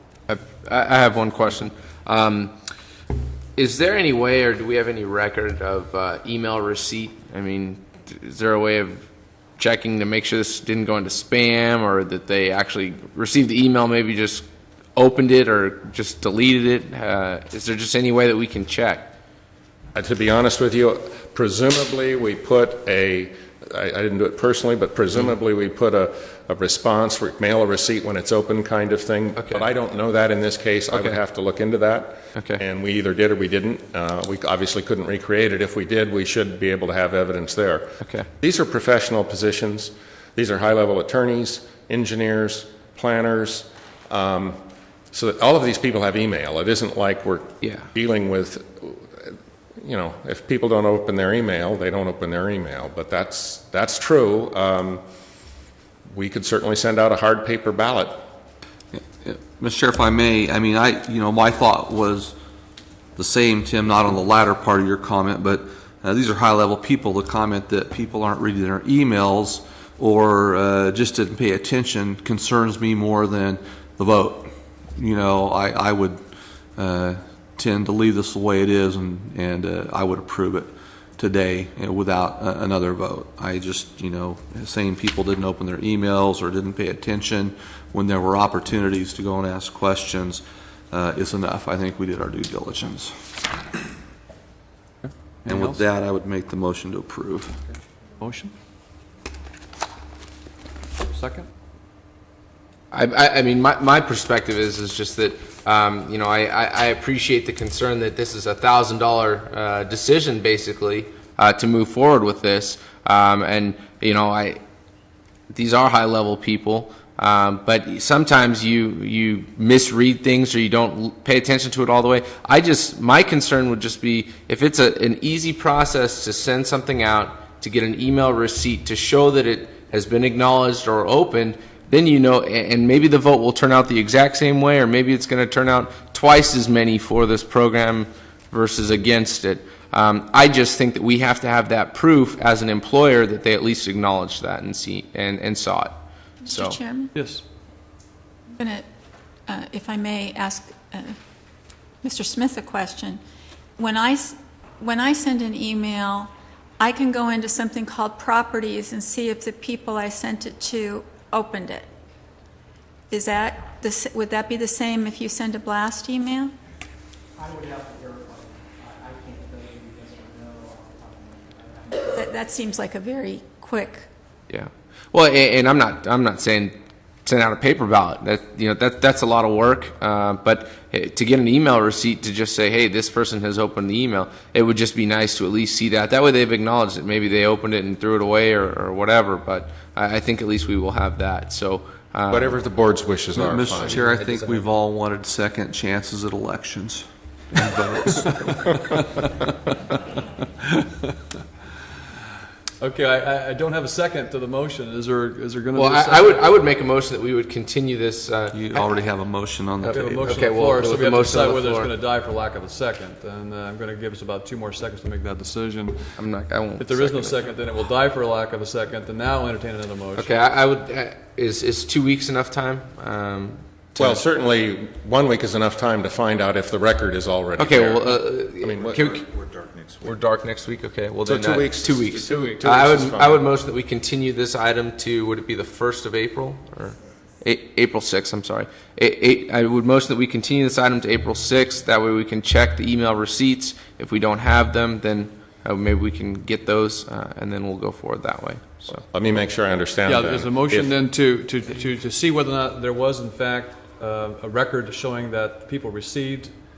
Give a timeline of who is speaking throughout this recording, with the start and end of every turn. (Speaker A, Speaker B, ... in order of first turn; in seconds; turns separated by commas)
Speaker A: 0.3-2.5, Speaker A: 3.6-9.1, Speaker A: 9.6-14.4, Speaker A: 15.0-19.1, Speaker B: 19.9-44.6, Speaker A: 29.4-29.7, Speaker A: 30.9-31.2, Speaker A: 32.3-32.6, Speaker B: 45.1-55.0, Speaker A: 47.6-47.9, Speaker B: 56.1-58.2, Speaker C: 58.9-62.3, Speaker C: 63.2-76.2, Speaker C: 76.8-93.3, Speaker D: 95.0-95.8, Speaker C: 95.5-97.6, Speaker D: 98.2-98.5, Speaker D: 101.0-101.5, Speaker A: 102.9-114.6, Speaker A: 115.5-146.8, Speaker E: 146.4-147.1, Speaker D: 147.2-147.4, Speaker E: 148.6-148.8, Speaker E: 149.5-151.2, Speaker E: 152.0-153.2, Speaker E: 153.8-161.9, Speaker E: 163.1-166.5, Speaker F: 167.4-171.8, Speaker E: 172.1-174.1, Speaker A: 174.5-192.6, Speaker B: 192.3-194.0, Speaker C: 193.3-198.2, Speaker A: 193.6-194.7, Speaker D: 198.2-199.0, Speaker D: 200.6-201.2, Speaker D: 202.8-206.6, Speaker A: 205.7-209.1, Speaker C: 208.5-210.4, Speaker A: 209.8-211.9, Speaker D: 209.9-216.2, Speaker A: 216.2-217.5, Speaker D: 216.8-220.3, Speaker A: 220.2-224.2, Speaker B: 224.0-229.1, Speaker A: 227.6-229.2, Speaker A: 230.0-248.9, Speaker B: 231.2-233.5, Speaker B: 248.9-250.9, Speaker D: 250.0-256.6